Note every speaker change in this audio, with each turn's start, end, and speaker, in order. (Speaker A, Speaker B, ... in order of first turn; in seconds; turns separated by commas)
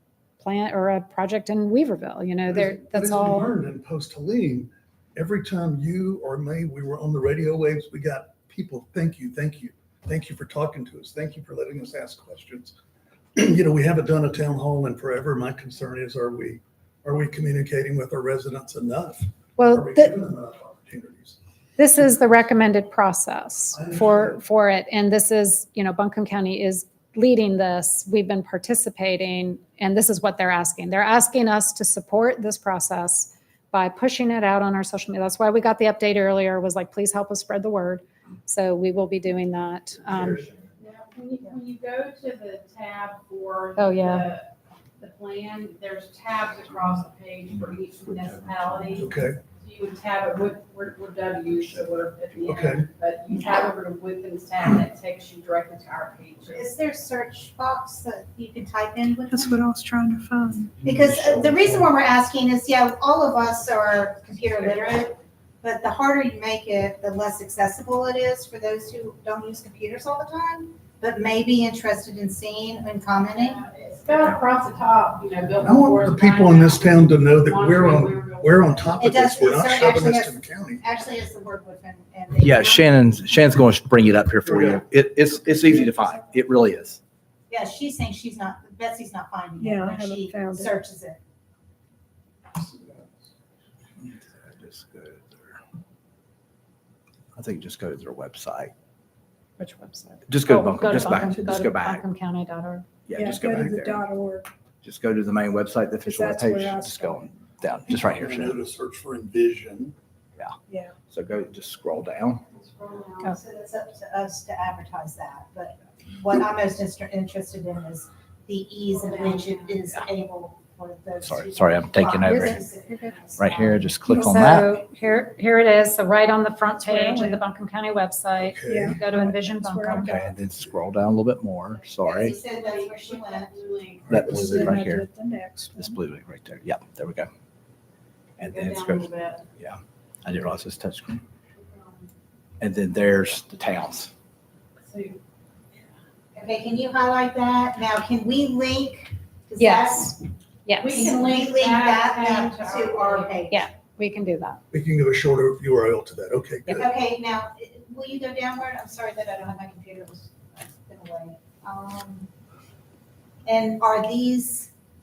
Speaker A: 0.4-3.5, Speaker B: 2.5-12.8, Speaker B: 13.3-21.4, Speaker A: 19.6-20.1, Speaker A: 21.8-40.5, Speaker B: 23.7-24.4, Speaker B: 40.1-40.5, Speaker C: 40.8-56.7, Speaker A: 43.8-44.3, Speaker D: 47.9-49.0, Speaker B: 49.0-49.4, Speaker D: 51.5-52.5, Speaker B: 52.5-52.9, Speaker E: 56.5-59.6, Speaker F: 59.3-60.7, Speaker B: 60.8-61.8, Speaker E: 60.8-73.6, Speaker C: 73.3-79.5, Speaker B: 75.6-80.8, Speaker E: 79.0-83.1, Speaker D: 82.4-87.0, Speaker B: 84.5-84.8, Speaker E: 87.5-91.2, Speaker F: 89.6-90.7, Speaker B: 92.5-93.3, Speaker D: 94.1-95.6, Speaker D: 97.3-98.7, Speaker A: 99.6-102.9, Speaker D: 100.3-102.0, Speaker D: 103.1-104.0, Speaker F: 103.1-104.5, Speaker D: 104.8-108.5, Speaker F: 106.0-107.4, Speaker B: 108.1-109.9, Speaker D: 110.4-112.4, Speaker F: 110.7-111.0, Speaker C: 112.5-113.2, Speaker E: 112.8-123.8, Speaker D: 121.2-122.6, Speaker D: 123.4-124.7, Speaker A: 124.1-130.1, Speaker F: 126.8-127.4, Speaker B: 128.4-129.0, Speaker F: 128.6-130.3, Speaker D: 129.9-132.3, Speaker E: 132.0-133.6, Speaker C: 132.2-134.2, Speaker D: 134.1-135.0, Speaker B: 134.1-134.8, Speaker F: 134.2-136.0, Speaker D: 135.7-137.3, Speaker D: 138.4-141.2, Speaker C: 138.4-139.4, Speaker D: 142.6-144.1, Speaker C: 144.9-145.2, Speaker E: 146.3-150.2, Speaker A: 149.6-151.2, Speaker C: 150.8-153.3, Speaker E: 150.9-153.6, Speaker A: 153.5-154.6, Speaker B: 154.7-156.9, Speaker E: 156.7-162.3, Speaker E: 163.4-164.7